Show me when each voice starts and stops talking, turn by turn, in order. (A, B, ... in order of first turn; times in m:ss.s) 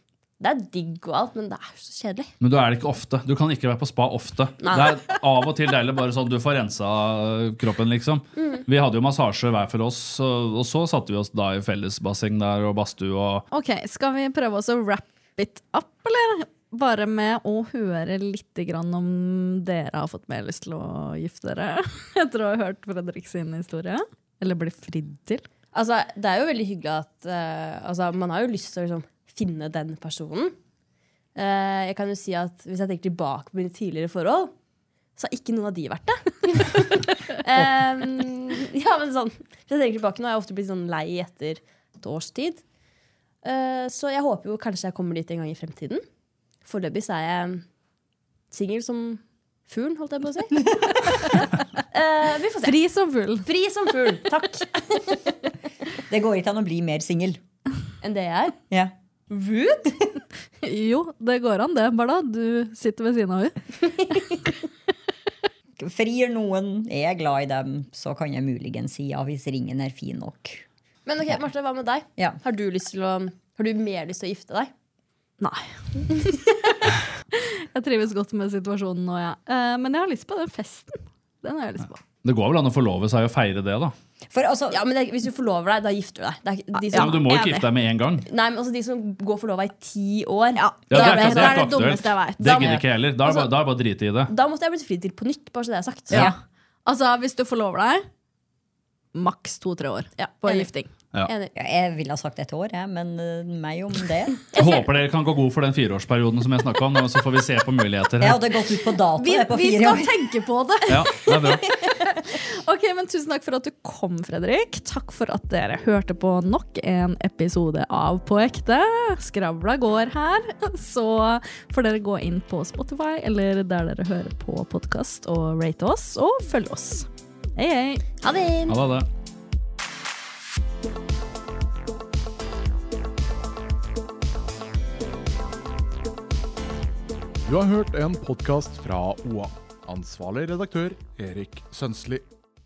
0:00.4-0:02.3 A
0:02.4-0:13.4 B
0:04.6-0:05.0 A
0:08.4-0:08.6 A
0:13.5-0:25.5 C
0:25.7-0:30.6 A
0:31.4-0:34.5 A
0:35.2-0:42.6 A
0:43.4-0:46.0 A
0:46.6-0:47.6 A
0:48.5-0:52.8 A
0:52.6-0:53.5 C
0:53.4-0:55.4 A
0:56.1-0:57.4 D
0:58.0-0:58.6 A
0:59.3-1:00.0 A
1:00.6-1:03.6 C
1:05.8-1:10.6 D
1:11.1-1:14.7 A
1:15.4-1:16.5 C
1:17.3-1:22.0 C
1:22.2-1:23.9 B
1:24.3-1:24.8 D
1:24.7-1:27.2 A
1:26.7-1:27.7 C
1:26.9-1:28.3 B
1:28.3-1:33.5 A
1:30.6-1:32.5 C
1:30.9-1:34.3 B
1:34.3-1:36.2 A
1:36.9-1:38.0 C
1:39.2-1:40.9 C
1:40.2-1:40.7 A
1:41.3-1:41.5 A
1:41.6-1:44.4 D
1:44.5-1:44.9 A
1:44.6-1:48.6 B
1:48.2-1:50.2 D
1:49.2-1:51.6 C
1:50.9-1:51.7 B
1:52.2-2:08.0 C
2:08.2-2:08.8 A
2:08.7-2:09.1 B
2:17.5-2:22.2 E